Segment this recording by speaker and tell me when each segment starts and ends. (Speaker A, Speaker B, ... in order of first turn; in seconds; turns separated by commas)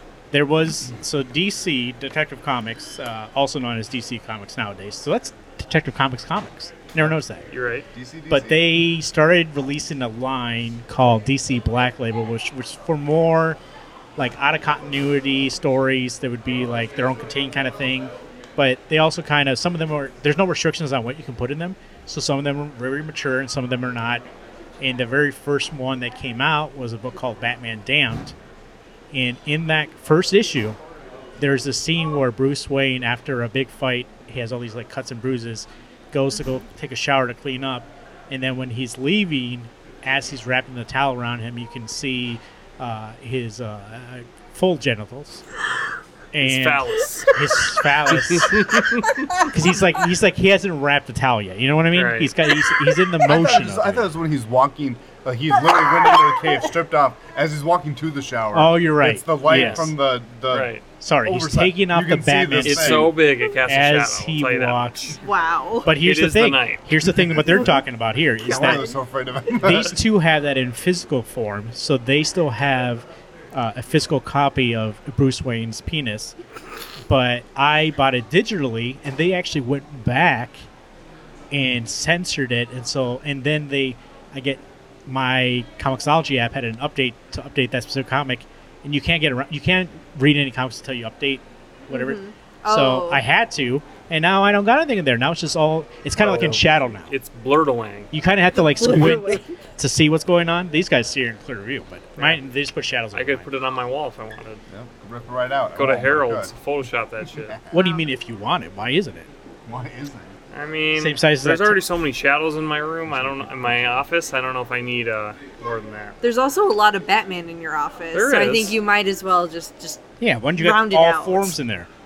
Speaker A: 0.3-7.5, Speaker B: 7.5-7.9, Speaker C: 7.9-8.7, Speaker A: 8.3-13.6, Speaker A: 14.2-24.2, Speaker A: 24.8-28.3, Speaker A: 29.1-30.8, Speaker A: 31.4-45.4, Speaker A: 46.3-54.1, Speaker B: 46.4-47.4, Speaker B: 48.1-49.2, Speaker B: 51.9-52.5, Speaker C: 53.2-63.1, Speaker A: 58.5-59.9, Speaker B: 59.5-59.9, Speaker B: 60.5-60.8, Speaker A: 61.0-65.2, Speaker B: 62.6-65.2, Speaker D: 65.2-65.9, Speaker A: 65.8-68.9, Speaker B: 66.0-66.9, Speaker C: 68.4-70.0, Speaker D: 68.6-68.8, Speaker A: 69.6-76.3, Speaker A: 77.1-80.7, Speaker A: 81.5-97.1, Speaker D: 91.9-93.2, Speaker B: 96.2-98.1, Speaker A: 98.1-103.5, Speaker D: 98.5-99.5, Speaker B: 103.1-104.6, Speaker C: 104.7-106.5, Speaker B: 105.7-107.6, Speaker C: 107.3-107.9, Speaker A: 107.7-109.3, Speaker C: 109.7-110.3, Speaker B: 110.5-116.2, Speaker A: 110.9-111.8, Speaker D: 116.2-121.5, Speaker B: 118.1-118.8, Speaker A: 120.2-121.9